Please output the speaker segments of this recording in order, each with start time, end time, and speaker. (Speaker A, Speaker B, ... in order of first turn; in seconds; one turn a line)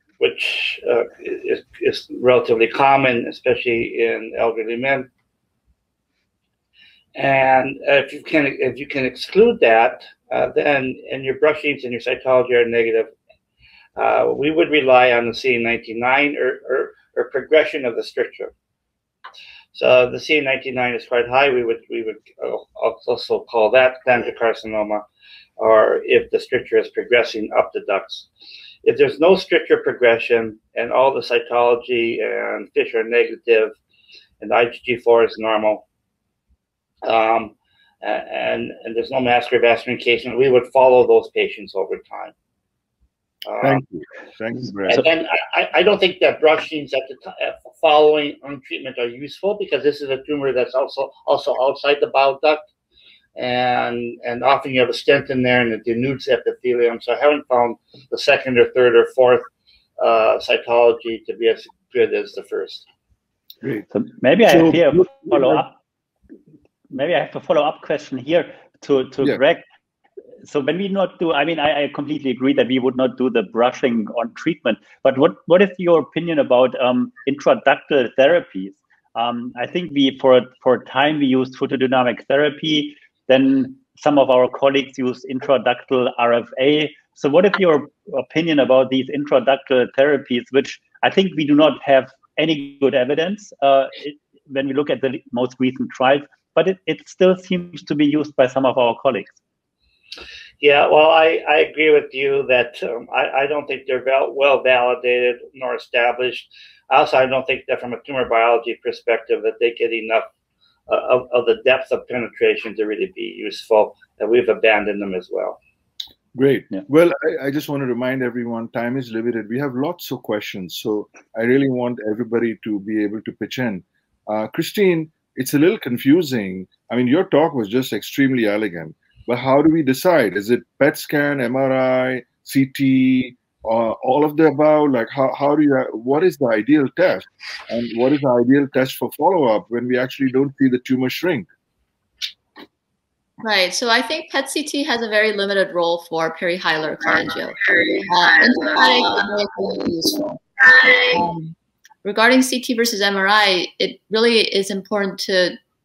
Speaker A: 0.2-5.1
Speaker A: 7.1-13.1
Speaker A: 13.9-18.5
Speaker A: 19.7-25.0
Speaker A: 25.6-28.3
Speaker A: 28.8-33.8
Speaker A: 34.4-35.8
Speaker A: 37.0-42.3
Speaker A: 43.5-43.8
Speaker B: 43.6-45.0
Speaker A: 44.9-52.6
Speaker A: 53.4-59.5
Speaker A: 60.0-62.8
Speaker C: 63.9-65.7
Speaker B: 64.5-65.6
Speaker C: 66.9-69.6
Speaker C: 70.4-99.3
Speaker A: 100.6-110.2
Speaker A: 110.9-115.6
Speaker B: 116.3-141.5
Speaker D: 143.4-150.4
Speaker D: 151.0-155.6